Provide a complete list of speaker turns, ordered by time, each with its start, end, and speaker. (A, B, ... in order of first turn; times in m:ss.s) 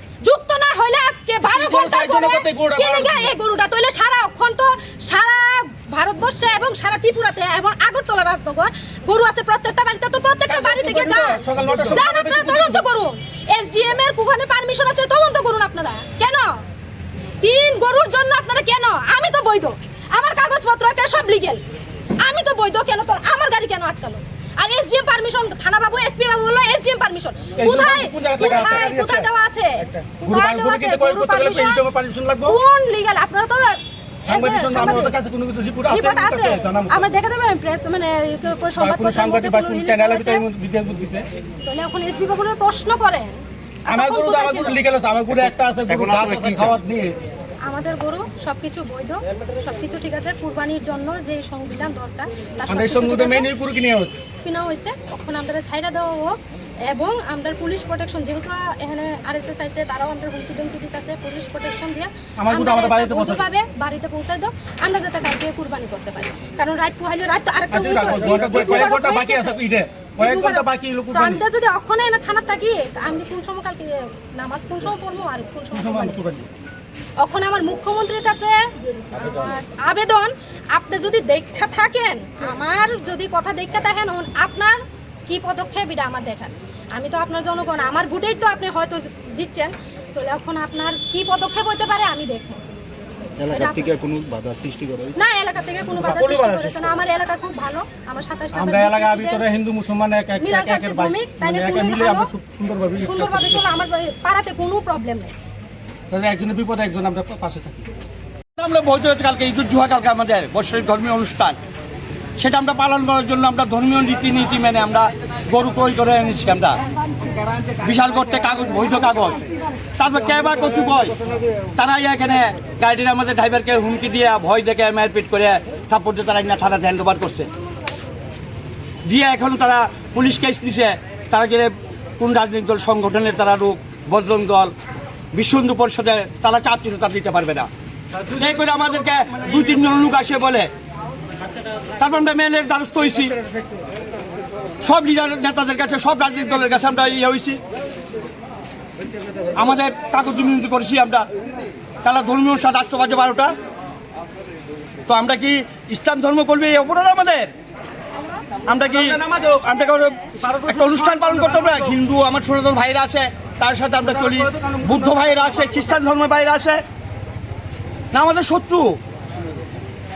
0:00.2-0:16.6 A
0:01.5-0:03.3 B
0:10.5-0:12.8 B
0:17.4-0:21.6 A
0:22.2-0:31.8 A
0:27.6-0:32.6 B
0:32.4-0:35.1 A
0:34.2-0:37.0 B
0:35.9-0:40.4 A
0:38.8-0:41.2 B
0:41.6-0:44.8 A
0:43.9-0:47.2 B
0:45.9-0:46.7 C
0:47.6-0:53.5 A
0:52.7-0:54.2 B
0:54.4-1:09.6 A
1:02.4-1:03.5 B
1:07.7-1:11.4 B
1:10.2-1:16.3 A
1:15.7-1:16.5 B
1:17.2-1:18.6 A
1:19.2-1:32.6 A
1:33.4-1:35.2 C
1:33.5-1:33.8 A
1:35.2-1:39.4 A
1:35.9-1:36.9 B
1:38.5-1:43.6 B
1:40.4-1:42.3 A
1:43.0-1:45.3 A
1:46.1-1:47.9 B
1:48.6-1:51.6 D
1:52.4-1:56.8 D
1:57.2-1:57.8 B
1:57.8-1:59.4 D
2:00.0-2:01.2 D
2:01.8-2:07.5 D
2:09.0-2:14.7 D
2:15.3-2:17.7 D
2:18.1-2:20.1 B
2:18.3-2:20.7 D
2:22.0-2:23.4 D
2:24.8-2:27.6 D
2:29.5-2:31.3 D
2:32.0-2:33.5 D
2:35.1-2:37.5 D
2:38.7-2:46.8 D
2:38.8-2:42.0 B
2:44.0-2:45.5 B
2:48.1-2:49.0 D